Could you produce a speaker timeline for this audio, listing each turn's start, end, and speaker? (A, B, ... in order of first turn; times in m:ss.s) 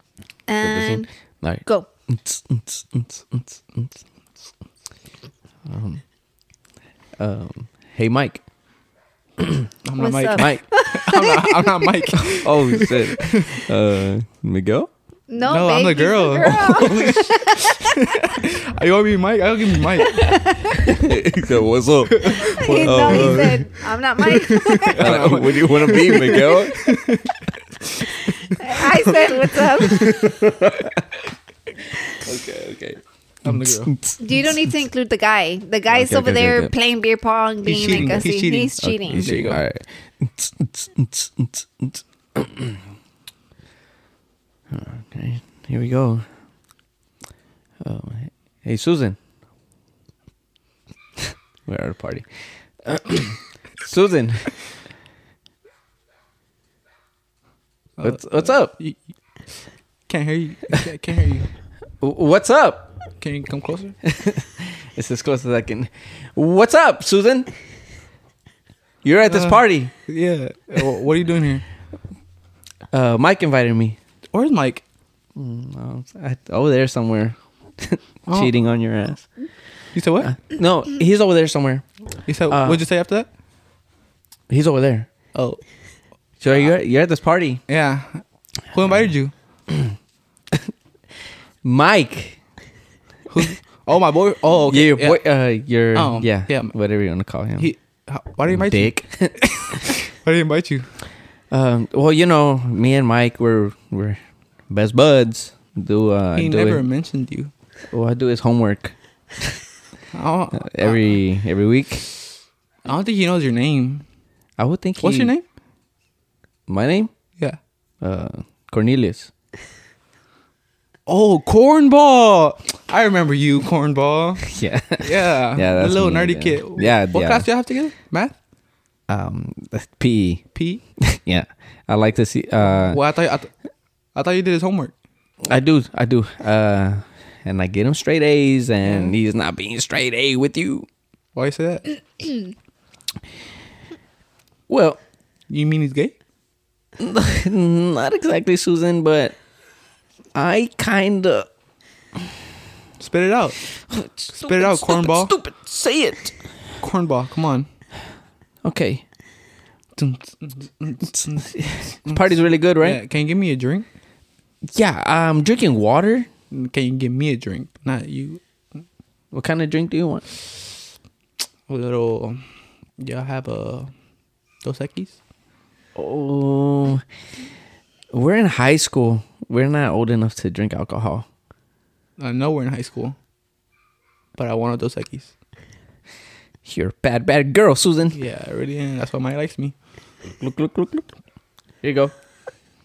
0:00.5-0:01.1 A
0:00.6-0:03.9 B
0:01.6-0:01.9 A
0:05.6-0:06.0 B
0:07.2-0:08.4 B
0:09.4-0:09.6 B
0:09.8-0:13.6 C
0:10.0-0:11.9 A
0:10.4-0:10.6 B
0:12.2-0:14.9 B
0:15.3-0:18.1 A
0:15.4-0:20.3 C
0:16.4-0:17.2 B
0:20.0-0:21.0 A
0:20.8-0:23.6 B
0:22.2-0:23.6 C
0:22.3-0:25.1 A
0:24.2-0:28.8 C
0:25.0-0:26.8 B
0:28.2-0:30.3 A
0:30.0-0:31.0 B
0:32.2-0:34.5 B
0:33.4-0:33.9 C
0:34.2-0:39.4 A
0:35.9-0:36.7 B
0:37.6-0:39.6 C
0:38.8-0:42.8 B
0:44.7-0:46.2 B
0:47.8-0:49.2 B
0:51.6-0:52.3 B
0:52.8-0:54.5 B
0:58.0-1:01.5 C
0:58.0-0:58.7 B
1:02.0-1:02.9 B
1:03.2-1:04.0 C
1:04.0-1:07.5 B
1:09.0-1:09.9 B
1:09.3-1:11.6 C
1:12.9-1:14.0 B
1:14.3-1:14.8 C
1:15.3-1:19.4 B
1:18.3-1:18.5 C
1:19.9-1:20.4 C
1:20.2-1:21.8 B
1:22.3-1:23.3 C
1:22.5-1:22.8 B
1:24.5-1:25.1 B
1:25.3-1:25.6 C
1:26.4-1:27.6 B
1:27.7-1:29.3 C
1:31.6-1:32.4 B
1:33.3-1:35.2 C
1:34.7-1:37.7 B
1:35.9-1:36.8 C
1:37.6-1:40.9 C
1:38.5-1:39.8 B
1:41.5-1:46.8 B
1:46.3-1:47.5 C
1:47.9-1:49.6 B
1:50.1-1:51.2 C
1:50.6-1:52.0 B
1:52.8-1:54.0 C
1:54.6-1:55.3 B
1:55.0-1:55.4 C
1:56.7-1:57.1 B
1:58.0-1:59.3 B
2:01.0-2:08.4 C
2:04.5-2:07.5 B
2:09.1-2:10.5 B
2:10.5-2:10.8 C
2:11.0-2:13.0 B
2:12.8-2:13.5 C
2:14.1-2:14.9 C
2:15.4-2:20.9 B
2:18.8-2:19.1 C
2:21.3-2:22.0 C
2:24.7-2:25.0 B
2:25.5-2:26.1 C
2:27.0-2:29.4 B
2:30.3-2:31.5 B
2:33.0-2:33.7 C
2:33.8-2:36.4 B
2:34.4-2:35.3 C
2:36.8-2:37.7 C
2:38.6-2:39.0 B
2:40.0-2:43.8 C
2:41.5-2:43.0 B
2:44.7-2:46.3 B
2:46.5-2:48.4 C
2:49.3-2:50.2 B
2:51.7-2:52.4 C
2:53.0-2:53.9 C
2:54.6-2:55.2 C
2:56.0-2:57.0 B
2:58.1-3:01.2 B
3:02.2-3:03.2 C
3:04.4-3:05.3 C
3:06.6-3:08.2 B
3:08.1-3:09.7 C
3:10.4-3:11.1 B
3:11.8-3:12.1 B